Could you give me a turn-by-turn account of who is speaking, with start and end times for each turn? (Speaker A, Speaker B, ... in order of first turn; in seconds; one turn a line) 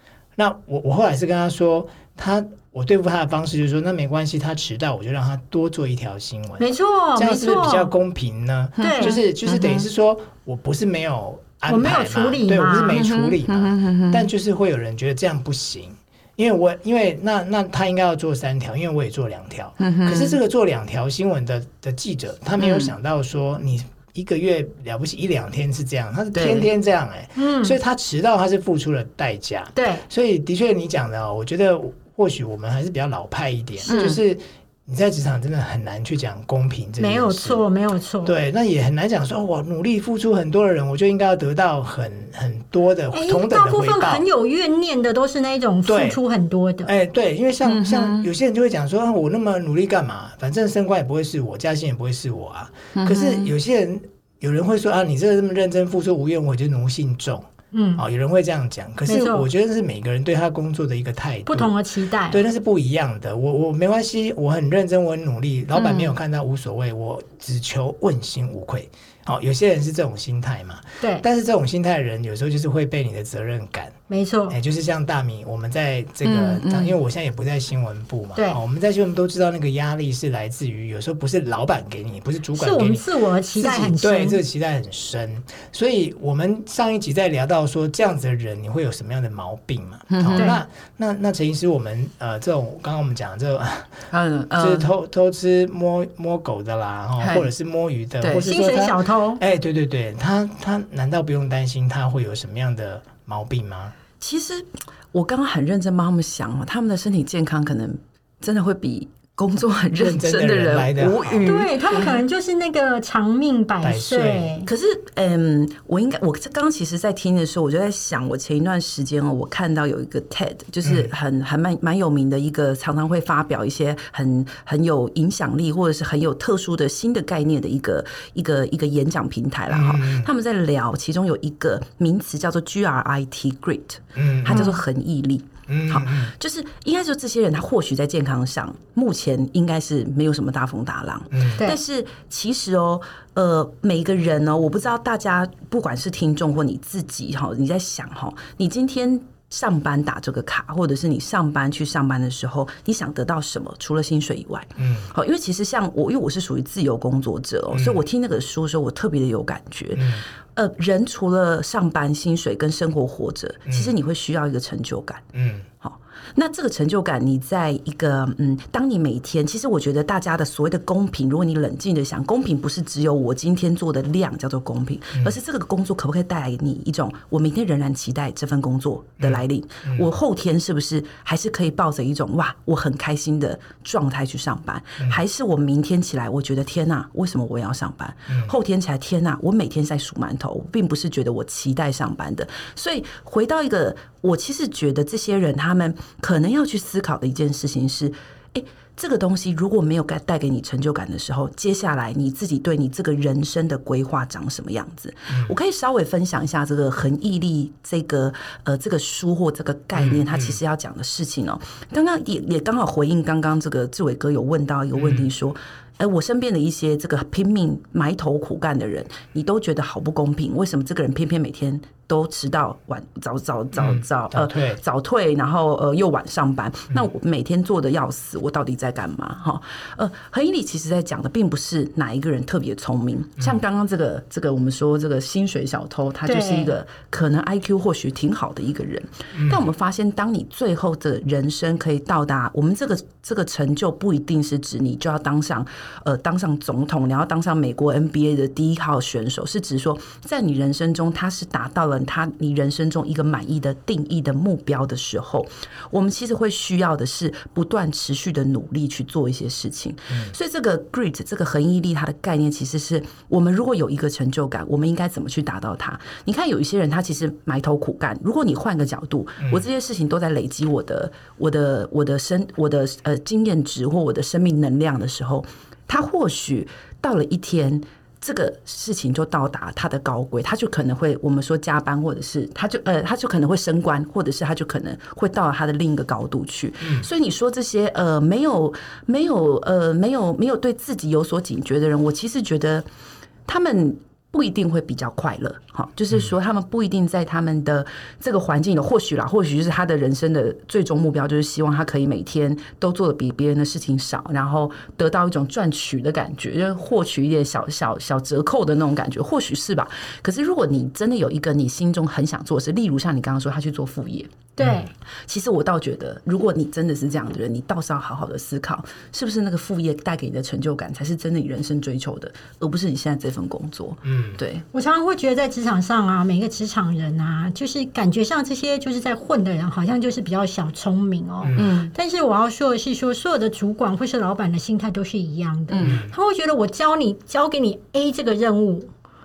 Speaker A: 0.3-37.6
Speaker B: 6.6-7.9
Speaker C: 8.8-9.9
Speaker B: 8.8-9.2
Speaker B: 11.7-13.0
Speaker C: 12.9-14.3
Speaker C: 19.8-20.4
Speaker C: 22.6-22.9
Speaker C: 26.3-26.7
Speaker B: 27.4-27.8
Speaker B: 29.7-30.0
Speaker C: 33.9-34.2
Speaker B: 37.0-38.3
Speaker A: 38.2-44.2
Speaker B: 43.1-46.9
Speaker A: 45.9-46.2
Speaker A: 46.8-61.7
Speaker C: 47.6-48.3
Speaker C: 52.9-53.5
Speaker B: 57.7-58.0
Speaker B: 59.1-59.5
Speaker B: 61.5-62.4
Speaker A: 62.3-73.9
Speaker C: 65.7-66.1
Speaker B: 74.1-74.6
Speaker A: 74.5-93.9
Speaker C: 76.2-77.0
Speaker B: 82.5-84.4
Speaker C: 90.1-90.5
Speaker B: 90.3-90.6
Speaker C: 94.1-94.9
Speaker A: 94.5-103.9
Speaker C: 97.2-97.5
Speaker C: 98.2-98.5
Speaker B: 98.4-99.4
Speaker C: 104.2-112.2
Speaker A: 110.0-111.5
Speaker B: 111.4-114.7
Speaker A: 113.8-114.5
Speaker C: 114.7-165.3
Speaker A: 120.8-121.1
Speaker A: 129.7-130.3
Speaker A: 134.1-134.8
Speaker B: 134.5-134.8
Speaker A: 135.7-136.3
Speaker A: 141.3-141.6
Speaker A: 154.8-155.1
Speaker A: 157.7-158.0
Speaker A: 159.9-160.2
Speaker A: 163.7-163.9
Speaker A: 165.3-165.7
Speaker C: 165.8-292.9
Speaker A: 179.2-180.1
Speaker A: 188.3-188.5
Speaker A: 205.3-205.5
Speaker A: 209.9-210.6
Speaker A: 214.9-215.3
Speaker A: 223.7-224.8
Speaker B: 236.2-236.7
Speaker A: 239.3-239.7
Speaker A: 269.4-269.6
Speaker A: 286.8-287.1
Speaker C: 293.5-314.4
Speaker B: 314.6-314.9
Speaker A: 314.6-314.9
Speaker C: 315.3-324.6
Speaker A: 324.0-324.4
Speaker B: 324.7-338.9
Speaker A: 331.4-331.7
Speaker C: 331.5-331.9
Speaker C: 335.7-336.0
Speaker A: 335.8-336.1